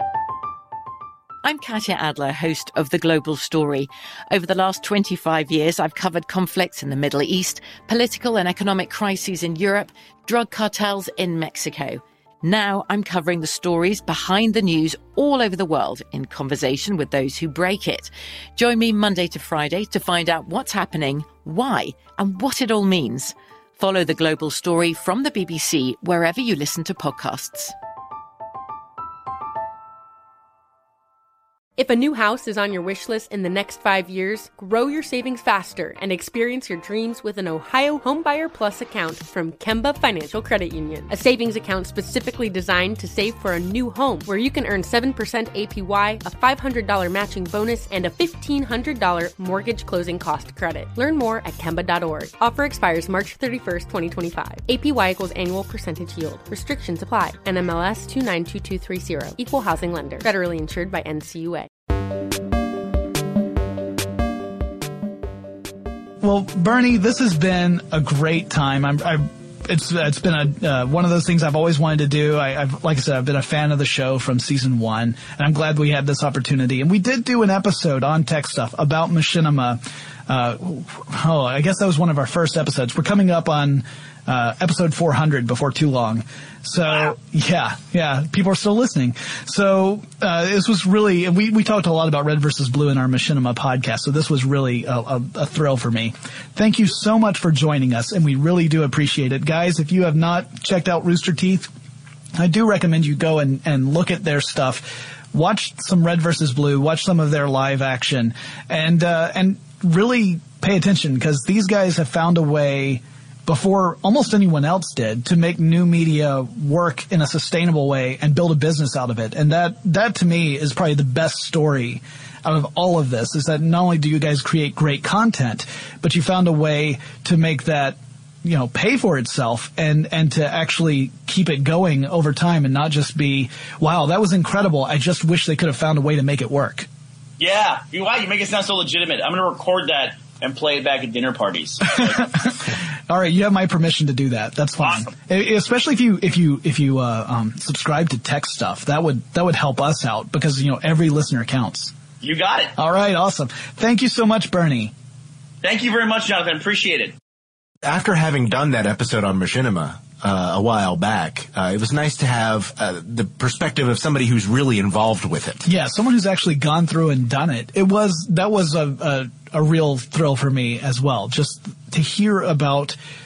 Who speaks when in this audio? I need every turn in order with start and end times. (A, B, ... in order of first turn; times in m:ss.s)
0:01.4-0:27.8 A
0:31.8-1:01.7 B
1:06.2-1:41.7 C
1:42.4-2:16.9 C
2:17.4-2:22.3 D
2:22.5-2:31.9 C
2:24.8-2:25.1 D
2:32.2-2:32.7 D
2:32.8-2:34.9 C
2:35.6-2:37.2 D
2:37.8-2:45.6 E
2:45.6-2:53.0 C